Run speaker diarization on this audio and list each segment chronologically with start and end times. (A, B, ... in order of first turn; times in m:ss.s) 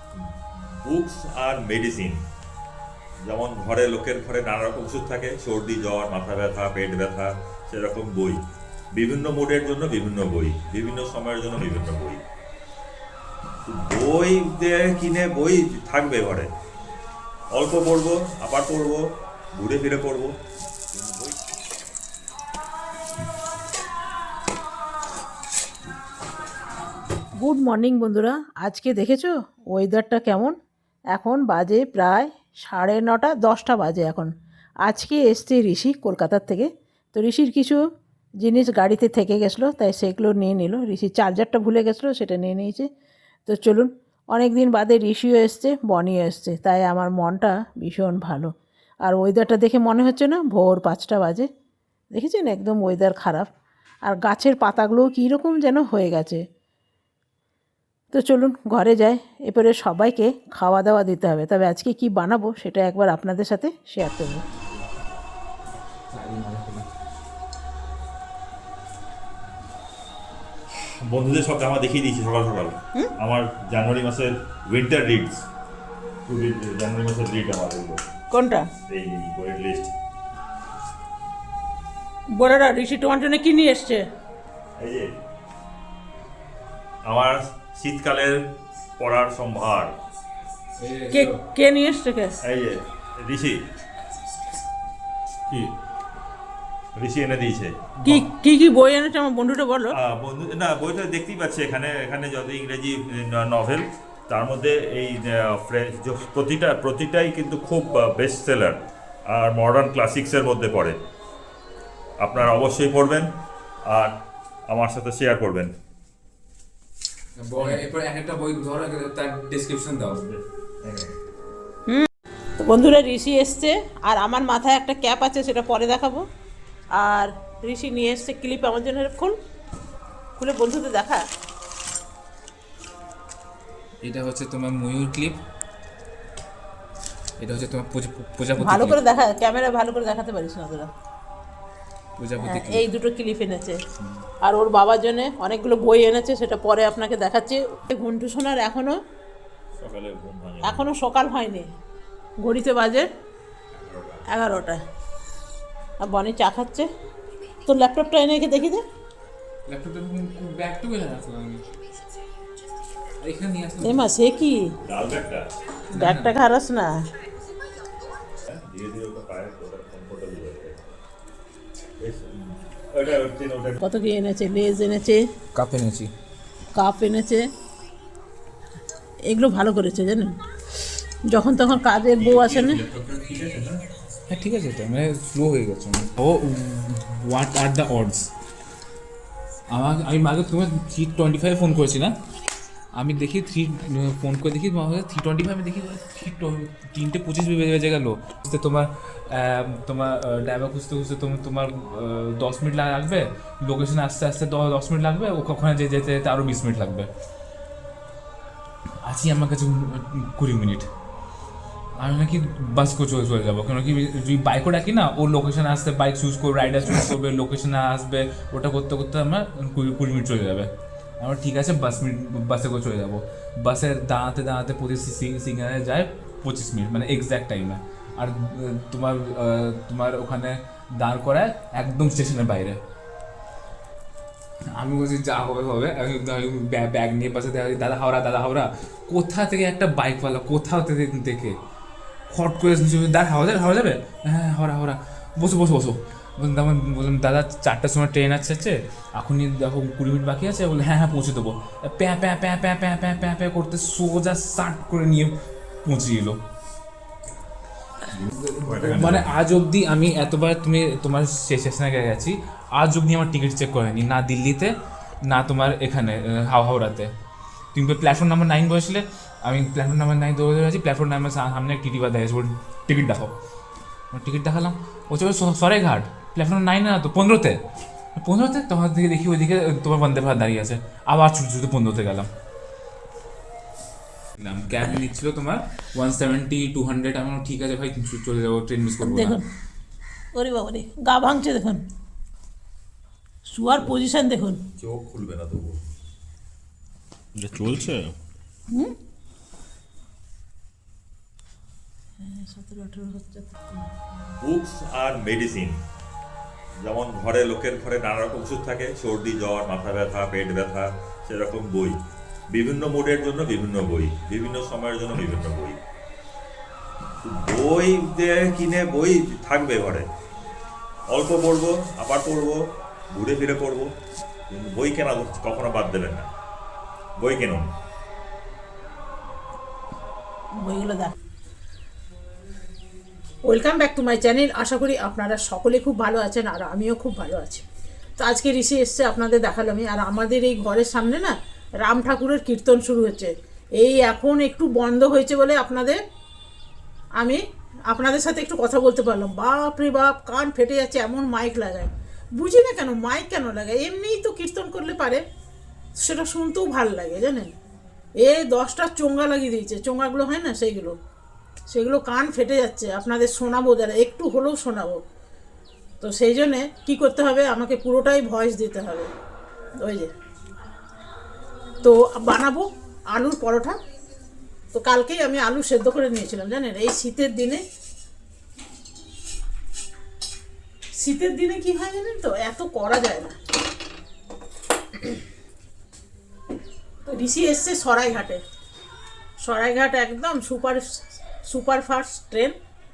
0:00.8-0:02.2 A
0:03.3-0:08.4 A
0:09.0-0:12.2 A
0:13.7-0:16.5 A
0:17.5-0:19.0 A
0:19.6-0:20.3 A
0:20.9-0:21.4 A
0:27.4-0:30.5 B
0:31.1-0:34.3 B
0:34.8-0:37.8 B
0:38.4-0:42.9 B
0:43.5-0:48.5 B
0:49.0-0:51.5 B
0:52.1-0:53.5 B
0:54.1-0:56.4 B
0:58.1-1:04.4 B
1:06.1-1:06.9 C
1:11.1-1:15.4 A
1:16.3-1:18.0 A
1:18.3-1:18.7 B
1:18.9-1:19.9 A
1:22.3-1:24.0 B
1:24.8-1:25.1 A
1:27.1-1:28.4 A
1:29.0-1:29.9 A
1:30.8-1:31.4 C
1:31.1-1:32.4 B
1:32.4-1:33.6 A
1:37.0-1:37.9 A
1:38.0-1:40.0 B
1:40.0-1:48.8 A
1:49.3-1:51.0 A
1:52.2-1:53.3 A
1:54.7-1:55.7 A
1:57.4-2:00.2 C
2:00.1-2:01.1 A
2:02.6-2:06.2 B
2:07.0-2:09.4 B
2:10.4-2:11.2 B
2:14.0-2:15.4 C
2:17.4-2:19.0 C
2:18.6-2:20.9 B
2:22.2-2:22.8 C
2:22.4-2:23.8 B
2:24.4-2:29.0 B
2:29.8-2:30.9 A
2:30.6-2:31.7 B
2:32.4-2:33.1 B
2:33.7-2:34.2 A
2:34.3-2:34.8 B
2:36.0-2:36.9 B
2:37.7-2:38.8 B
2:39.7-2:41.6 C
2:43.2-2:44.1 C
2:43.8-2:44.7 B
2:44.8-2:45.4 A
2:45.9-2:46.4 C
2:45.9-2:46.9 B
2:48.4-2:50.9 A
2:52.0-2:52.3 A
2:52.9-2:53.8 A
2:53.8-2:55.2 B
2:55.6-2:56.1 C
2:56.7-2:57.4 B
2:59.3-3:00.4 B
3:01.3-3:02.8 B
3:02.3-3:03.7 A
3:04.3-3:08.3 C
3:09.7-3:12.1 C
3:13.0-3:27.1 C
3:29.0-3:30.9 C
3:32.0-3:40.7 C
3:41.2-3:52.8 C
3:54.8-4:01.6 C
4:02.3-4:16.4 C
4:18.2-4:19.3 A
4:18.3-4:24.7 C
4:25.2-4:27.1 C
4:27.8-4:33.3 C
4:34.1-4:37.6 C
4:38.2-4:42.3 C
4:44.4-4:49.4 C
4:49.0-4:49.4 B
4:50.3-4:51.8 B
4:53.5-4:54.6 B
4:54.8-4:55.8 A
4:57.4-4:58.1 A
5:02.2-5:03.6 B
5:04.4-5:05.7 A
5:06.8-5:12.0 A
5:12.5-5:15.8 A
5:17.2-5:20.1 A
5:21.1-5:22.6 A
5:23.1-5:23.9 A
5:24.5-5:26.3 A
5:27.2-5:27.6 A
5:30.6-5:31.1 B
5:33.4-5:37.7 B
5:38.2-5:46.0 B
5:47.2-5:55.2 B
5:56.0-5:57.5 B
5:58.2-6:01.0 B
6:01.7-6:05.0 B
6:06.0-6:09.1 B
6:09.8-6:10.1 B
6:11.8-6:13.8 B
6:14.7-6:17.6 B
6:21.0-6:23.4 B
6:27.0-6:28.4 B
6:29.4-6:30.8 B
6:31.4-6:32.5 B